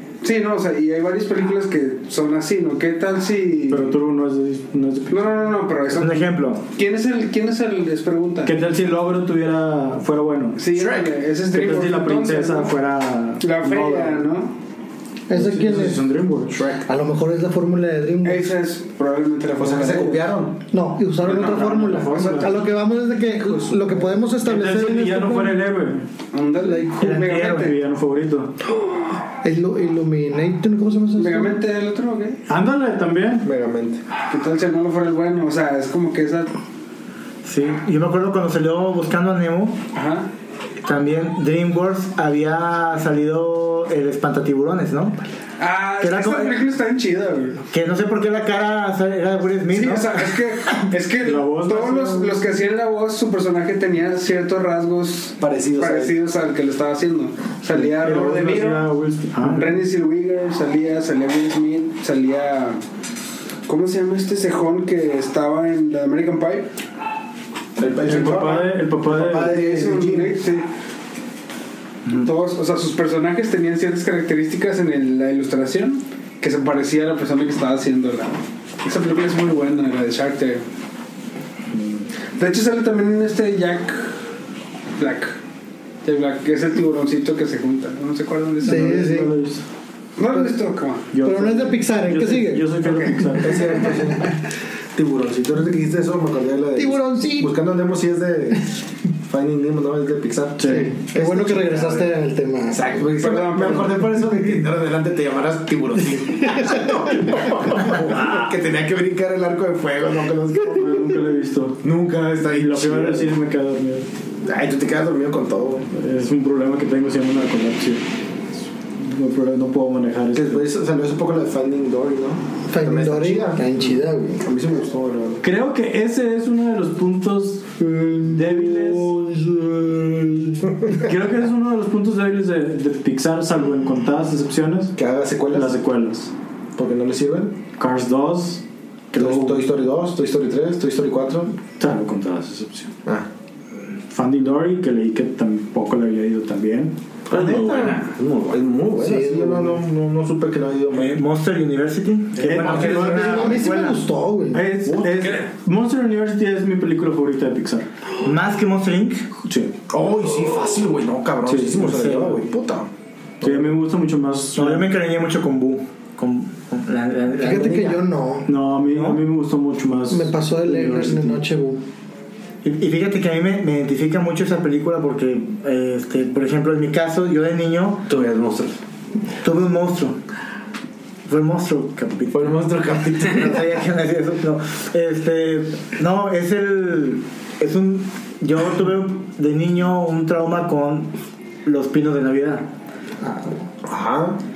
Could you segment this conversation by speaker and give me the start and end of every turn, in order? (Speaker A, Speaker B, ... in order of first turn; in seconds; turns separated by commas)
Speaker A: 0.2-4.0, Speaker B: 3.7-5.4, Speaker A: 5.1-8.6, Speaker C: 6.0-6.6, Speaker B: 8.4-10.6, Speaker A: 10.6-12.8, Speaker D: 10.7-11.1, Speaker B: 11.5-14.2, Speaker A: 13.4-14.6, Speaker E: 15.3-16.1, Speaker B: 15.3-16.6, Speaker D: 16.5-16.8, Speaker E: 16.9-18.6, Speaker A: 18.2-20.3, Speaker D: 19.6-20.6, Speaker E: 20.7-25.6, Speaker B: 21.3-22.6, Speaker A: 21.4-22.5, Speaker D: 23.3-24.2, Speaker B: 24.4-26.1, Speaker A: 26.3-27.8, Speaker C: 27.0-27.8, Speaker B: 27.4-28.5, Speaker E: 29.4-31.6, Speaker A: 31.2-32.4, Speaker B: 32.5-33.5, Speaker D: 33.4-34.0, Speaker A: 34.3-36.5, Speaker C: 37.4-39.8, Speaker A: 39.9-40.3, Speaker C: 40.8-45.2, Speaker A: 45.6-47.6, Speaker C: 46.0-46.6, Speaker C: 47.7-50.4, Speaker A: 49.7-58.9, Speaker B: 51.2-52.4, Speaker D: 55.4-56.1, Speaker B: 57.8-59.8, Speaker A: 59.4-62.8, Speaker A: 63.7-66.7, Speaker D: 67.8-70.4, Speaker B: 68.0-69.6, Speaker A: 69.3-70.7, Speaker A: 72.2-80.6, Speaker B: 81.7-82.0, Speaker A: 82.4-84.2, Speaker A: 85.0-85.4, Speaker A: 86.0-89.0, Speaker E: 88.6-89.3, Speaker B: 88.6-89.6, Speaker A: 90.2-91.1, Speaker B: 91.1-93.9, Speaker E: 91.2-92.7, Speaker A: 92.8-93.3, Speaker D: 93.4-94.3, Speaker D: 95.0-98.7, Speaker E: 96.8-97.5, Speaker D: 99.3-102.1, Speaker B: 100.6-101.0, Speaker E: 100.7-102.8, Speaker D: 102.7-111.2, Speaker A: 103.1-104.1, Speaker E: 106.6-106.9, Speaker B: 110.7-111.8, Speaker D: 111.8-113.3, Speaker B: 112.5-114.1, Speaker D: 114.4-115.9, Speaker B: 115.9-118.0, Speaker B: 119.0-120.7, Speaker D: 120.3-123.8, Speaker E: 122.7-124.4, Speaker D: 124.4-125.4, Speaker B: 125.4-135.0, Speaker E: 127.9-130.2, Speaker D: 135.0-135.7, Speaker B: 135.5-136.3, Speaker D: 136.8-137.6, Speaker B: 137.8-139.6, Speaker D: 139.2-141.6, Speaker B: 141.8-142.9, Speaker B: 144.1-146.9, Speaker D: 147.3-151.2, Speaker F: 147.3-148.6, Speaker E: 149.0-149.8, Speaker C: 150.9-154.0, Speaker B: 152.4-153.7, Speaker D: 152.5-153.4, Speaker E: 152.8-154.7, Speaker B: 154.5-157.9, Speaker D: 154.8-155.4, Speaker C: 158.2-159.3, Speaker B: 159.5-159.7, Speaker D: 159.9-162.9, Speaker B: 161.5-161.9, Speaker C: 161.8-162.4, Speaker D: 163.4-163.7, Speaker B: 163.4-164.9, Speaker C: 164.6-168.0, Speaker E: 167.4-168.5, Speaker B: 168.5-171.4, Speaker C: 168.9-169.2, Speaker E: 170.1-171.8, Speaker C: 172.6-178.1, Speaker F: 178.1-178.8, Speaker C: 179.4-180.2, Speaker C: 181.3-182.6, Speaker D: 182.3-183.5, Speaker C: 183.2-191.1, Speaker C: 191.7-192.7, Speaker E: 193.2-193.6, Speaker D: 193.8-194.4